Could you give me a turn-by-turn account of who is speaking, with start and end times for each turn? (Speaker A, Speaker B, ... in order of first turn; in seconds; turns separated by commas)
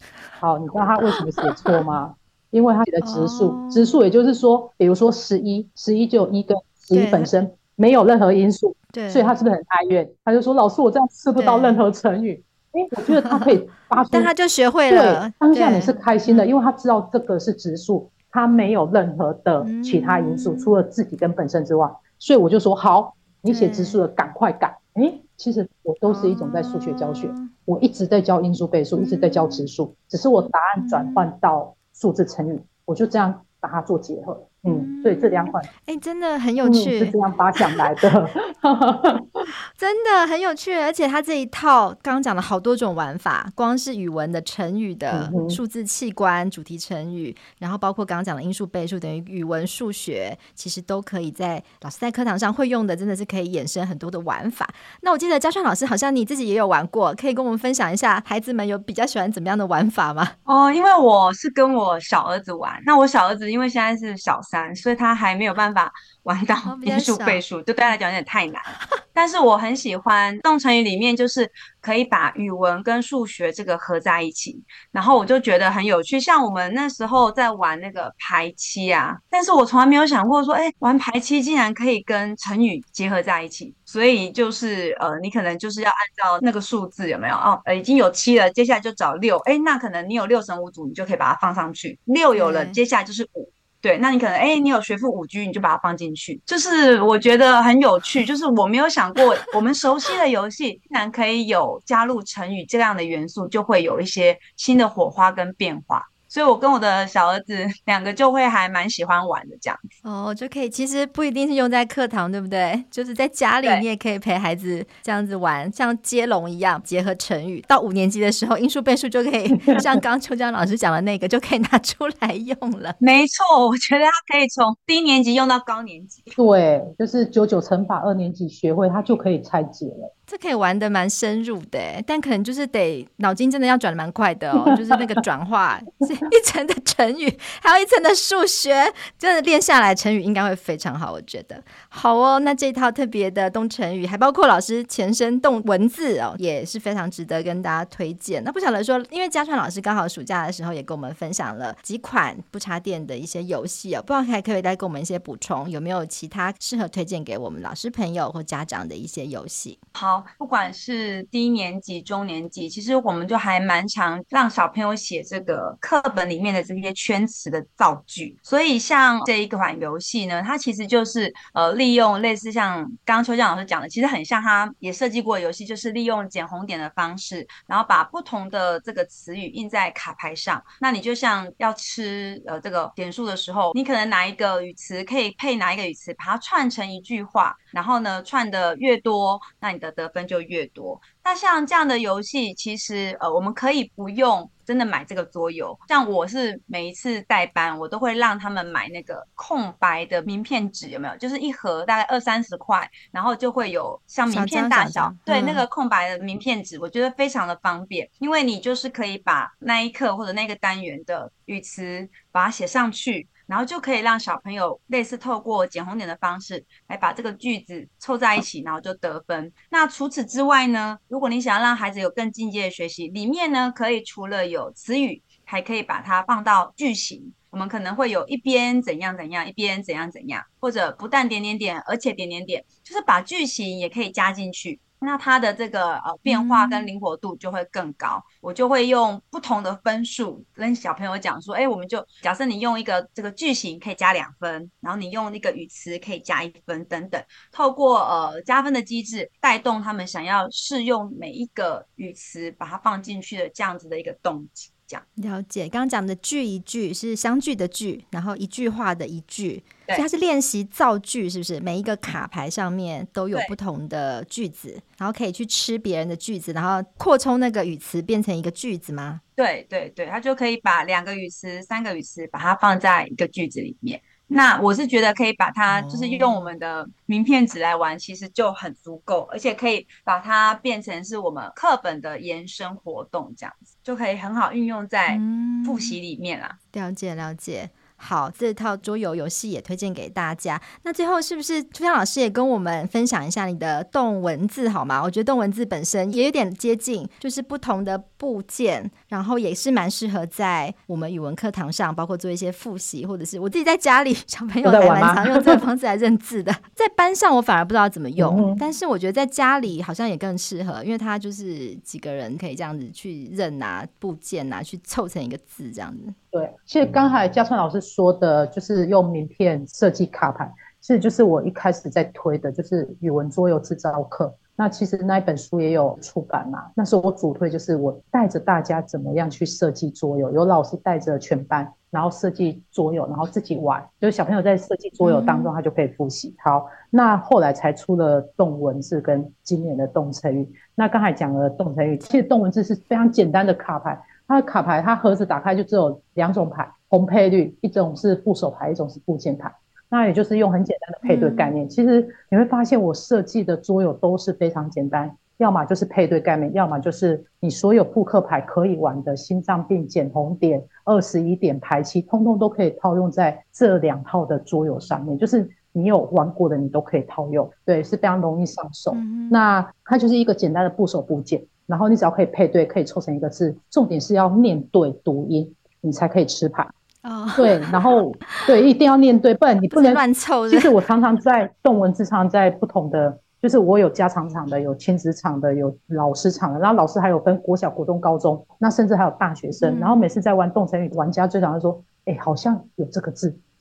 Speaker A: 0.4-14.3, Speaker B: 3.0-4.0, Speaker B: 6.9-7.3, Speaker B: 8.9-9.3, Speaker B: 11.4-11.8, Speaker B: 13.2-13.6, Speaker B: 14.1-16.5, Speaker A: 14.9-35.7, Speaker B: 19.6-20.7, Speaker B: 23.5-24.0, Speaker B: 26.1-27.5, Speaker B: 29.0-29.7, Speaker B: 30.8-31.3, Speaker B: 34.7-37.2, Speaker A: 36.6-39.5, Speaker B: 39.7-60.4, Speaker A: 45.1-45.6, Speaker C: 60.5-109.8, Speaker B: 66.6-67.4, Speaker B: 92.4-92.8, Speaker B: 110.0-123.0, Speaker C: 123.0-126.4, Speaker A: 126.4-130.1, Speaker B: 130.3-159.8, Speaker A: 134.7-135.0, Speaker C: 160.0-255.0, Speaker B: 204.3-205.7, Speaker B: 236.3-236.9, Speaker B: 255.2-269.2, Speaker C: 269.4-286.6, Speaker B: 275.7-276.5, Speaker B: 285.1-286.0, Speaker B: 286.7-316.2, Speaker A: 304.6-305.6, Speaker A: 308.2-308.6, Speaker A: 316.3-376.7, Speaker B: 335.0-335.5, Speaker B: 351.0-351.5, Speaker B: 368.9-369.4, Speaker B: 377.0-377.8, Speaker A: 377.4-393.4, Speaker B: 379.7-380.7, Speaker B: 389.6-390.0